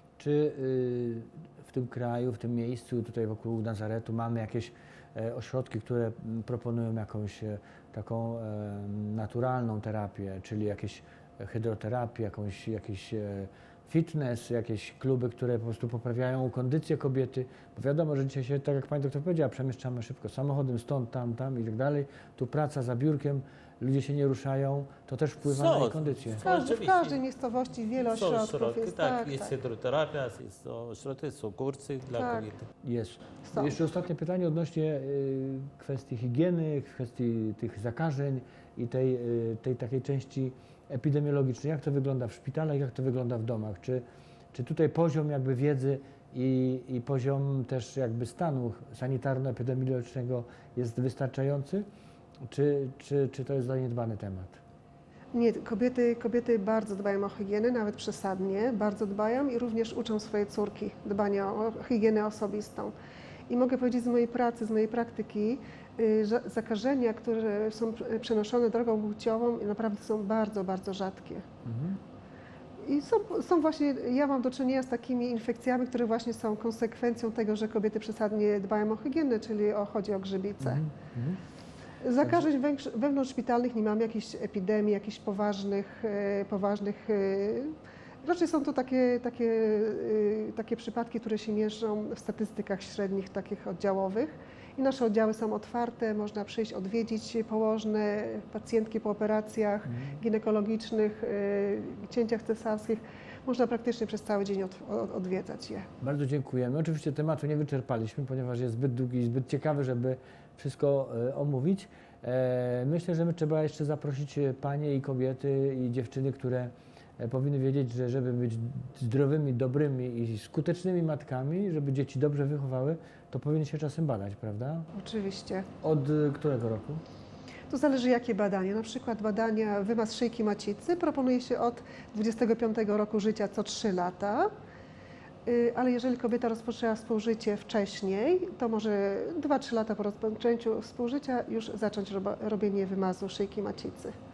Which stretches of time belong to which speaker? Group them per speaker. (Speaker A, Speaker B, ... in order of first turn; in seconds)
Speaker A: 0.2-26.4, 32.8-51.8, 52.4-54.6, 71.6-72.0, 80.6-81.4, 99.8-100.2, 106.0-124.9, 125.8-127.0
Speaker B: 25.4-27.2, 28.1-32.7
Speaker C: 26.4-29.5, 32.1-32.5, 33.5-33.8, 55.3-62.9, 63.5-71.5, 72.8-80.8, 82.0-105.9, 124.9-125.7, 127.7-134.5, 135.4-144.1